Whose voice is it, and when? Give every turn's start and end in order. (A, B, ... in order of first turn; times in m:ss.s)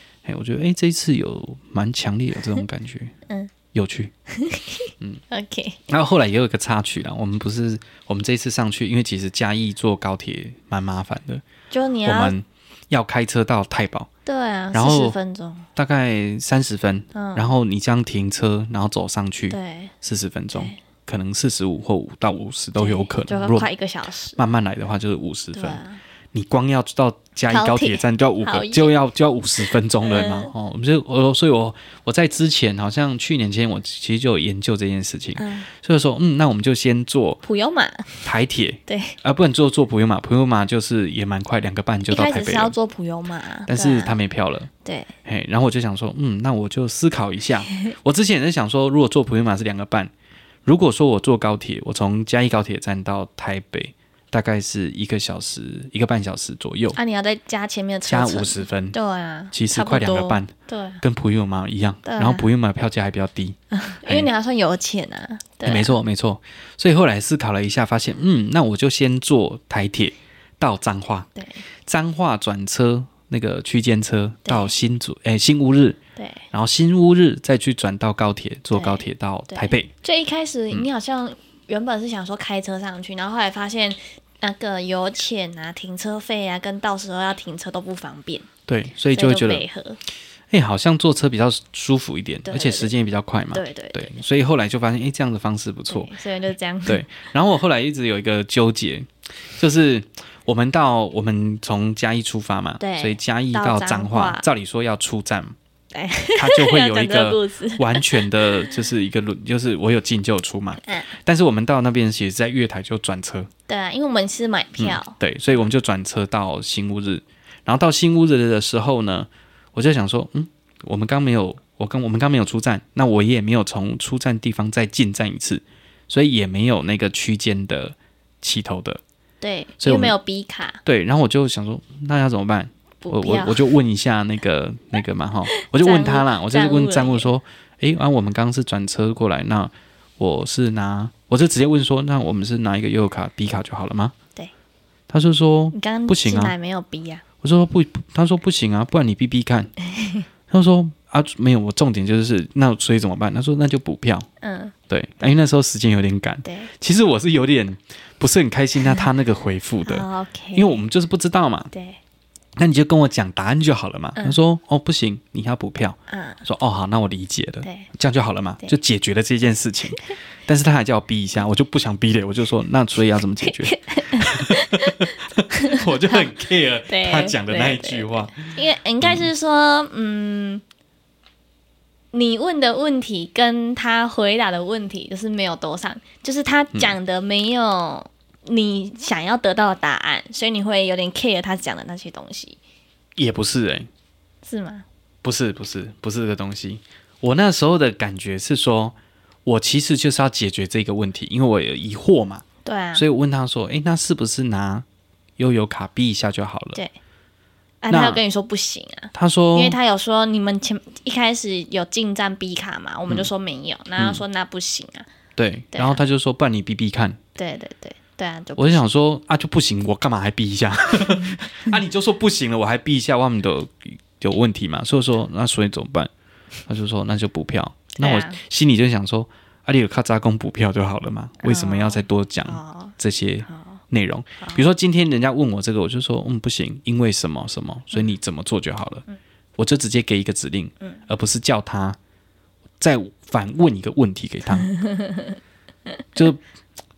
0:00.2-0:03.1 A
0:03.7-0:04.1 A
0:04.3-0:05.8 B
0:05.9-0:11.4 A
0:11.7-0:12.4 B
0:12.0-0:14.1 A
0:14.2-0:15.6 B
0:14.7-0:15.2 A
0:15.8-0:23.7 A
0:17.1-0:17.5 B
0:19.5-0:19.9 B
0:22.8-0:24.4 B
0:24.4-0:25.8 A
0:25.6-0:26.0 B
0:26.3-0:37.4 A
0:27.5-0:28.9 B
0:30.0-0:30.5 B
0:35.4-0:35.7 B
0:37.4-0:38.2 B
0:38.2-0:42.7 A
0:38.9-0:39.2 B
0:42.1-0:44.2 B
0:43.7-0:44.7 A
0:44.8-0:45.1 B
0:45.2-0:50.1 A
0:50.6-0:57.0 A
0:56.9-1:01.0 B
0:58.1-0:59.0 A
0:59.5-1:04.3 A
1:02.0-1:02.4 B
1:03.7-1:05.9 B
1:05.6-1:11.3 A
1:11.4-1:11.6 B
1:11.9-1:16.0 A
1:14.4-1:14.7 B
1:16.2-1:16.4 B
1:16.5-1:19.9 A
1:18.7-1:28.5 B
1:28.7-1:29.6 A
1:29.1-1:30.0 B
1:30.5-1:36.1 A
1:32.4-1:32.9 B
1:33.5-1:34.2 B
1:35.9-1:37.0 B
1:36.9-1:45.6 A
1:42.8-1:44.4 B
1:45.9-1:48.7 B
1:46.4-1:53.5 A
1:50.8-1:51.1 B
1:53.7-1:55.2 B
1:54.8-2:09.0 A
2:09.4-2:10.8 B
2:09.8-2:10.1 A
2:10.9-2:24.1 A
2:13.0-2:13.7 B
2:15.6-2:17.3 B
2:25.1-2:26.6 A
2:25.7-2:27.2 B
2:27.4-2:29.7 A
2:29.9-2:30.2 B
2:30.5-2:34.3 A
2:34.4-2:34.7 B
2:34.9-2:41.7 A
2:36.4-2:36.7 B
2:39.8-2:40.8 B
2:41.7-2:42.0 B
2:42.6-2:58.4 A
2:46.1-2:46.4 B
2:47.6-2:47.9 B
2:53.4-2:56.2 B
2:56.9-3:00.6 B
2:59.0-2:59.3 A
3:02.1-3:12.6 B
3:13.2-3:13.9 A
3:14.4-3:14.8 B
3:15.2-3:24.9 A
3:22.6-3:23.0 B
3:25.4-3:26.8 A
3:27.8-3:35.1 B
3:27.9-3:28.2 A
3:29.1-3:29.8 A
3:35.4-3:37.2 A
3:35.7-3:36.0 B
3:37.4-3:38.8 B
3:38.6-3:46.1 A
3:46.7-3:59.0 A
3:48.0-3:48.4 B
3:51.4-3:52.9 B
3:53.5-3:53.8 B
3:59.6-4:02.0 A
4:02.8-4:04.7 A
4:04.5-4:05.4 B
4:06.1-4:06.4 A